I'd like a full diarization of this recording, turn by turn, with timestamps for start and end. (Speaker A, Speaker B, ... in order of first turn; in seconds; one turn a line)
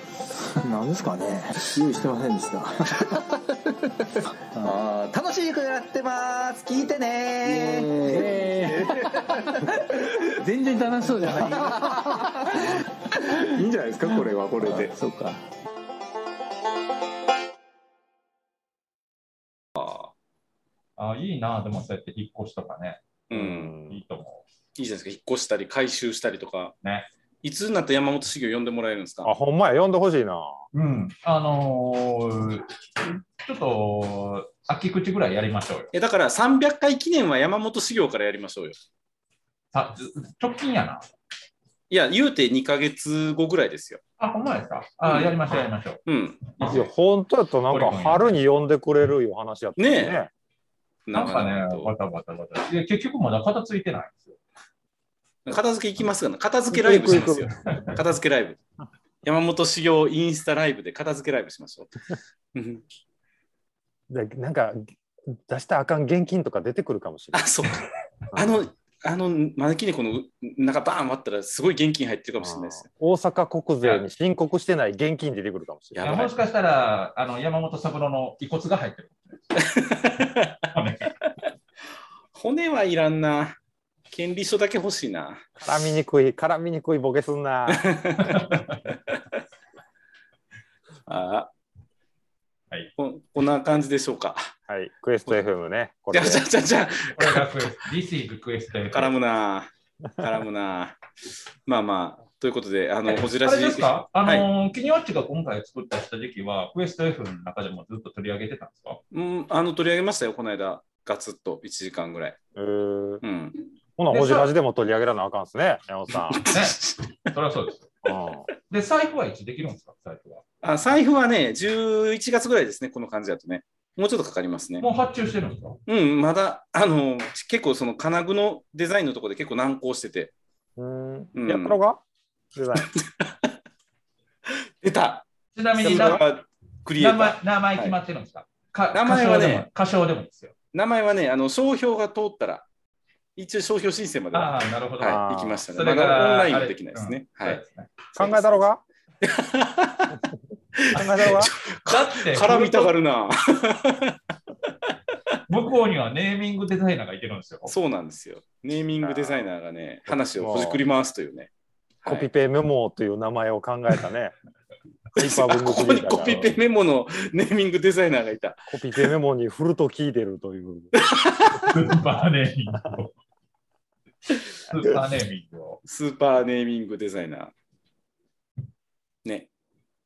Speaker A: 0.5-3.2
Speaker B: 4.6-9.6
Speaker A: 7.5-15.4
Speaker B: 11.2-12.5
Speaker B: 14.1-14.9
Speaker C: 19.8-20.1
Speaker D: 21.0-23.0
Speaker C: 23.3-23.7
Speaker E: 23.3-24.0
Speaker D: 23.9-24.4
Speaker C: 24.8-26.7
Speaker D: 26.8-27.1
Speaker C: 27.4-29.3
Speaker E: 29.2-30.6
Speaker D: 30.7-35.9
Speaker C: 35.9-38.8
Speaker D: 39.7-41.0
Speaker C: 41.9-44.0
Speaker D: 44.2-46.0
Speaker C: 46.0-46.4
Speaker D: 46.6-46.9
Speaker E: 46.7-50.3
Speaker D: 47.7-48.3
Speaker C: 49.8-50.1
Speaker C: 51.0-51.9
Speaker D: 51.1-54.4
Speaker C: 55.5-58.6
Speaker E: 56.7-57.5
Speaker D: 57.5-58.0
Speaker C: 59.2-62.0
Speaker C: 62.5-62.8
Speaker E: 64.1-67.5
Speaker C: 67.3-72.9
Speaker E: 68.3-68.6
Speaker E: 72.4-76.3
Speaker C: 75.9-76.3
Speaker D: 76.0-79.4
Speaker C: 79.5-80.7
Speaker D: 80.7-81.1
Speaker C: 82.3-83.6
Speaker C: 84.1-85.5
Speaker E: 85.6-87.9
Speaker C: 87.7-89.2
Speaker D: 88.2-88.8
Speaker C: 91.1-91.5
Speaker C: 93.0-94.5
Speaker E: 94.7-96.4
Speaker C: 96.1-97.7
Speaker D: 97.1-99.1
Speaker C: 98.9-101.0
Speaker C: 101.7-104.5
Speaker D: 103.1-109.0
Speaker C: 109.1-112.4
Speaker E: 112.5-113.2
Speaker C: 113.2-113.5
Speaker E: 114.0-116.4
Speaker D: 114.1-114.5
Speaker C: 116.3-117.2
Speaker D: 116.5-116.8
Speaker D: 117.3-117.9
Speaker E: 118.0-118.5
Speaker D: 118.7-120.4
Speaker C: 120.6-124.9
Speaker D: 124.8-125.8
Speaker C: 125.9-130.3
Speaker E: 130.8-132.0
Speaker C: 131.3-131.8
Speaker E: 132.5-132.9
Speaker C: 132.8-133.5
Speaker C: 134.5-135.2
Speaker D: 135.5-136.2
Speaker C: 135.8-137.9
Speaker E: 135.8-136.2
Speaker D: 137.0-140.5
Speaker C: 138.9-139.7
Speaker C: 140.7-142.7
Speaker C: 143.3-147.6
Speaker D: 144.3-148.0
Speaker E: 145.0-145.7
Speaker C: 148.2-148.4
Speaker E: 148.2-148.8
Speaker C: 149.2-150.2
Speaker C: 150.8-154.2
Speaker E: 150.9-151.5
Speaker D: 150.9-152.9
Speaker D: 155.5-157.7
Speaker C: 157.7-161.5
Speaker E: 159.0-159.5
Speaker E: 160.1-160.8
Speaker E: 162.0-164.3
Speaker E: 165.2-166.5
Speaker C: 165.2-169.0
Speaker E: 168.7-171.0
Speaker C: 170.9-171.7
Speaker D: 171.6-173.1
Speaker D: 174.5-175.8
Speaker C: 175.8-177.5